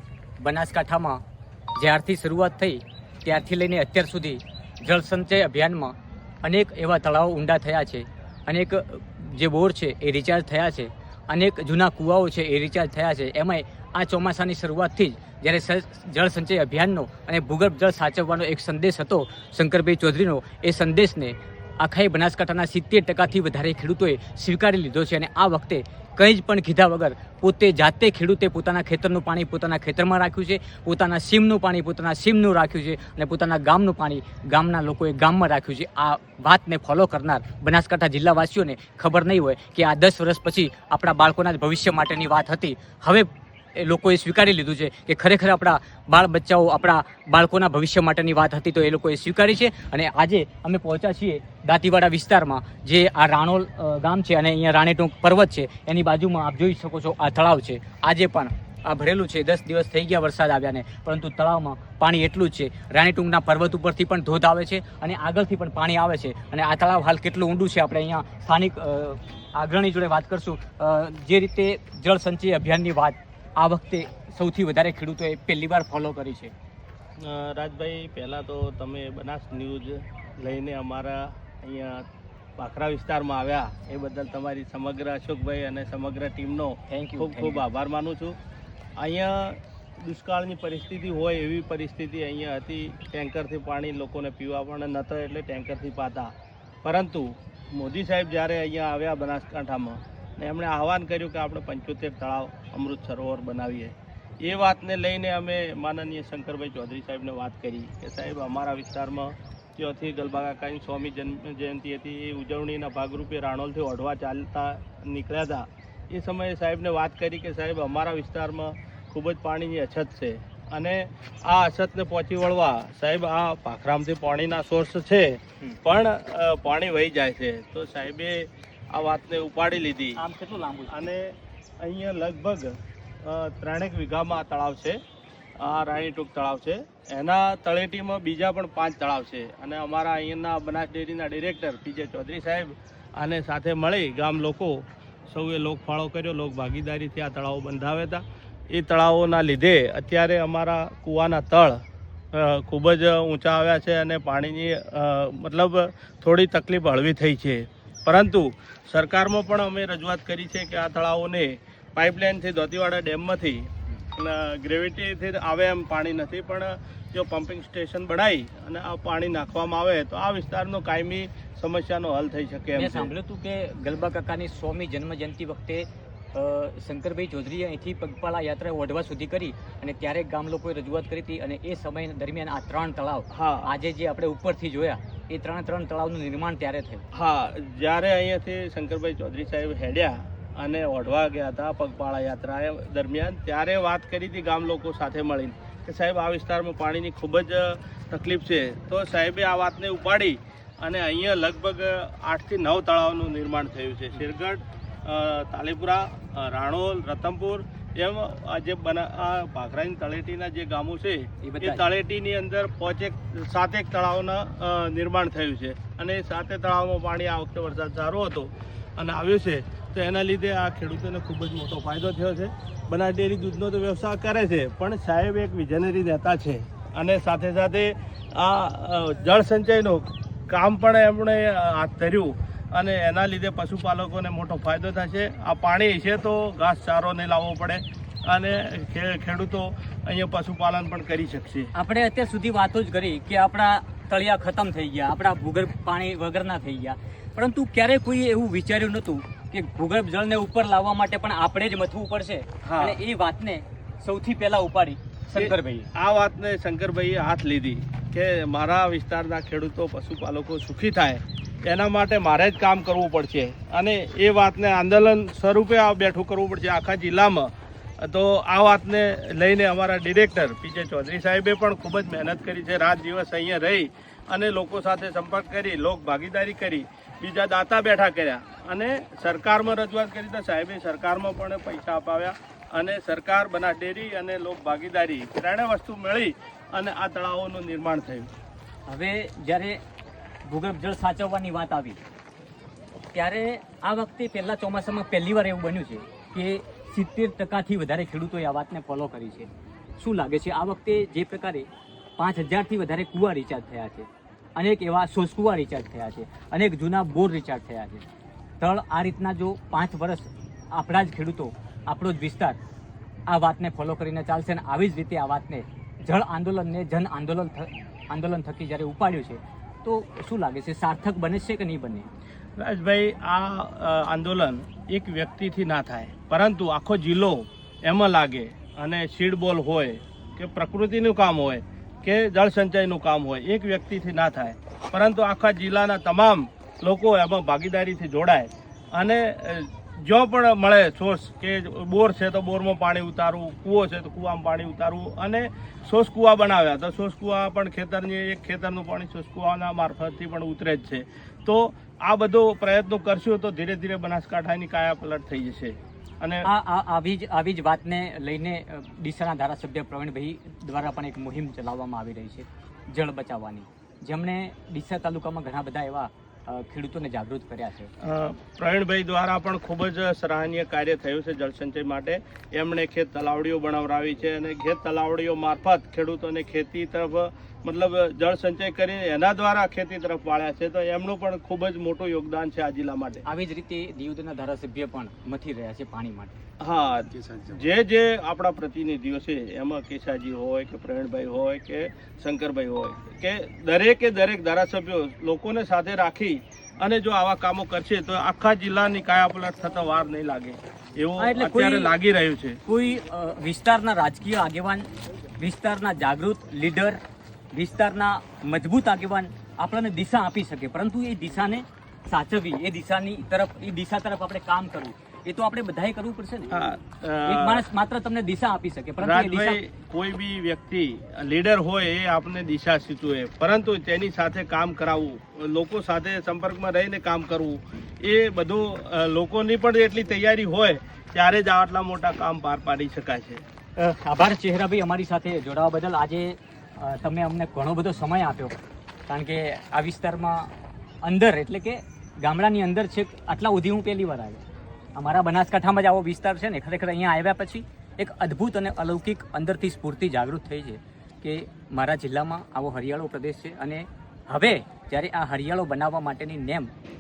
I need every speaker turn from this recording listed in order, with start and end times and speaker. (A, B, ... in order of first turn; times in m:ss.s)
0:00.4-0:01.2 A
0:01.8-1:16.5 A
1:17.2-1:22.0 B
1:22.6-1:28.4 B
1:26.9-1:27.6 A
1:29.0-1:36.3 B
1:36.8-2:10.2 B
2:10.2-2:11.0 A
2:10.9-2:15.0 B
2:15.6-2:53.1 B
2:52.7-3:07.0 A
3:03.3-3:03.7 B
3:07.1-4:01.7 B
3:31.4-3:31.8 A
4:01.7-4:15.9 A
4:12.6-4:13.0 B
4:15.4-4:48.3 B
4:48.9-4:49.8 A
4:50.4-4:52.0 A
4:53.1-5:08.0 A
5:08.6-5:12.6 A
5:13.3-5:22.1 A
5:22.6-5:56.5 B
5:56.4-6:07.9 A
6:08.0-6:23.2 B
6:23.2-6:26.4 A
6:26.6-6:42.6 B
6:41.2-6:41.9 A
6:42.6-6:44.9 A
6:45.4-6:47.0 A
6:47.5-6:56.7 A
6:56.5-6:57.7 B
6:57.2-6:59.6 A
6:59.0-7:13.4 B
7:13.8-7:18.6 A
7:19.1-7:20.5 A
7:21.0-7:24.4 A
7:25.0-7:36.7 A